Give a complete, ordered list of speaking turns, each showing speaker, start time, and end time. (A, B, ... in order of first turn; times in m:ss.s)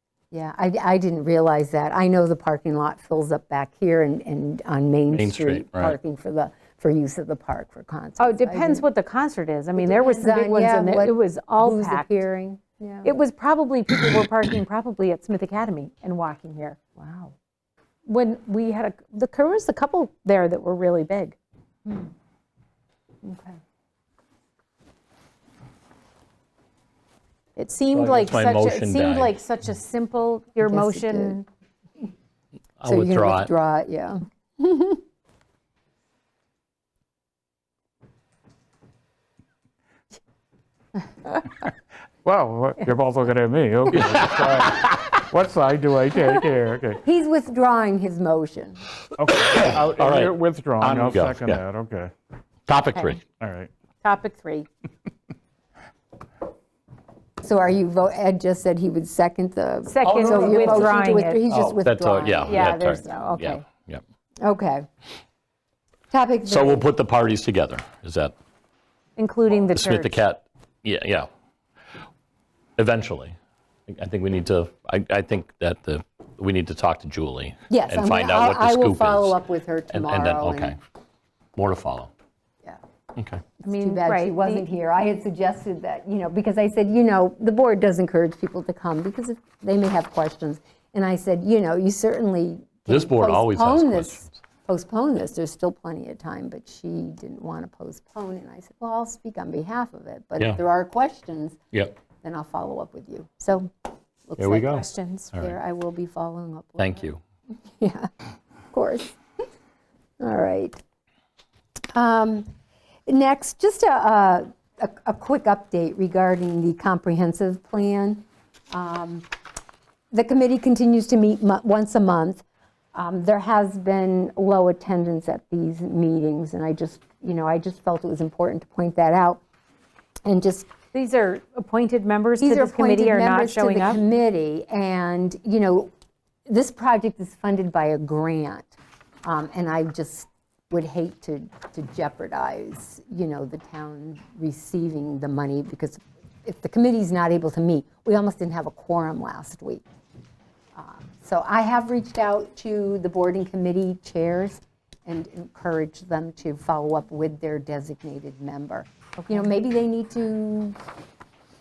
0:00.3-0:08.8 A
0:05.1-0:06.0 B
0:08.2-0:12.1 C
0:09.8-0:13.2 A
0:13.0-0:16.8 C
0:17.0-0:17.3 A
0:18.1-0:21.4 C
0:21.8-0:22.1 A
0:23.2-0:23.6 A
0:27.6-0:31.5 C
0:27.9-0:29.4 B
0:30.6-0:31.4 A
0:32.8-0:33.5 B
0:32.9-0:35.0 A
0:42.2-0:47.0 D
0:44.0-0:44.4 B
0:47.0-0:48.8 A
0:49.2-0:52.1 D
0:49.3-0:51.6 B
0:52.7-0:53.2 B
0:53.4-0:53.7 D
0:54.0-0:54.7 C
0:57.4-1:03.2 A
0:59.9-1:01.5 C
1:00.0-1:00.9 B
1:01.5-1:04.0 B
1:02.4-1:03.6 C
1:04.4-1:04.9 A
1:06.1-1:06.8 A
1:06.5-1:08.4 B
1:09.2-1:10.2 C
1:09.7-1:11.3 B
1:12.8-1:13.4 B
1:13.9-1:19.4 B
1:17.7-1:20.8 A
1:19.9-1:20.8 B
1:21.6-1:22.1 B
1:23.2-1:23.4 B
1:23.6-1:41.6 A
1:23.6-1:24.6 C
1:32.9-1:34.4 B
1:42.2-1:43.7 A
1:44.3-1:44.8 A
1:44.4-1:45.6 B
1:44.5-1:45.4 C
1:45.4-1:47.0 A
1:46.8-1:47.2 B
1:47.8-1:48.1 A
1:48.7-1:49.2 A
1:50.2-1:50.8 A
1:51.9-1:52.5 A
1:53.1-1:59.3 A
2:00.1-2:02.4 A
2:03.0-2:09.4 A
2:10.2-2:10.7 A
2:10.9-2:14.0 C
2:12.4-2:15.9 A
2:16.5-2:18.7 A
2:19.2-2:29.8 A
2:30.8-2:40.8 A